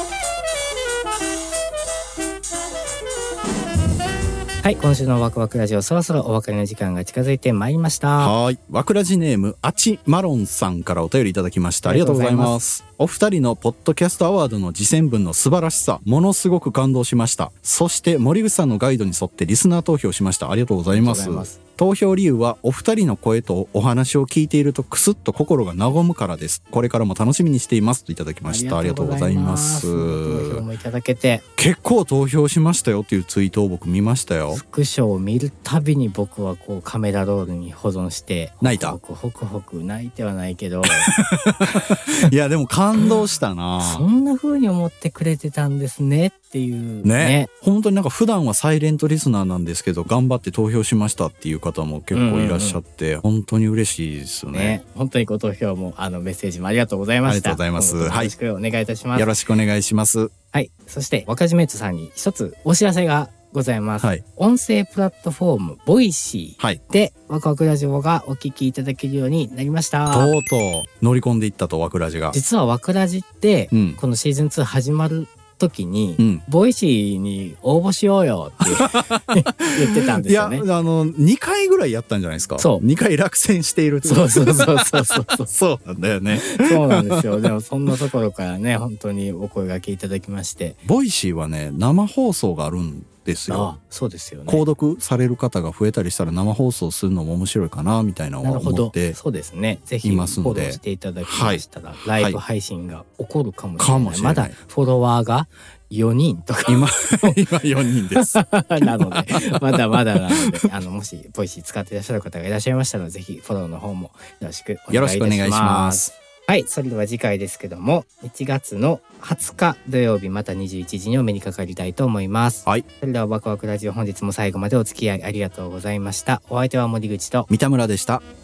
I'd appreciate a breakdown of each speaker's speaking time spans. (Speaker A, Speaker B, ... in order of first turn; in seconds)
Speaker A: 4.6-8.3, 11.8-12.6, 20.9-21.6, 28.5-31.4, 34.5-41.1, 43.8-47.5, 52.1-52.8, 54.5-59.3, 60.5-70.3, 72.3-80.7, 82.6-82.8, 84.0-85.5, 86.3-90.8, 93.5-94.6, 98.4-107.4, 108.1-127.5
Speaker B: 8.2-30.6, 31.6-34.6, 38.6-39.0, 40.9-44.1, 47.0-54.8, 57.2-58.4, 59.1-60.3, 70.1-72.4, 73.7-74.0, 76.2-76.4, 78.6-87.2, 90.8-93.7, 94.5-99.2, 100.0-101.6, 103.8-104.6, 106.7-110.7, 114.9-116.1, 127.5-128.2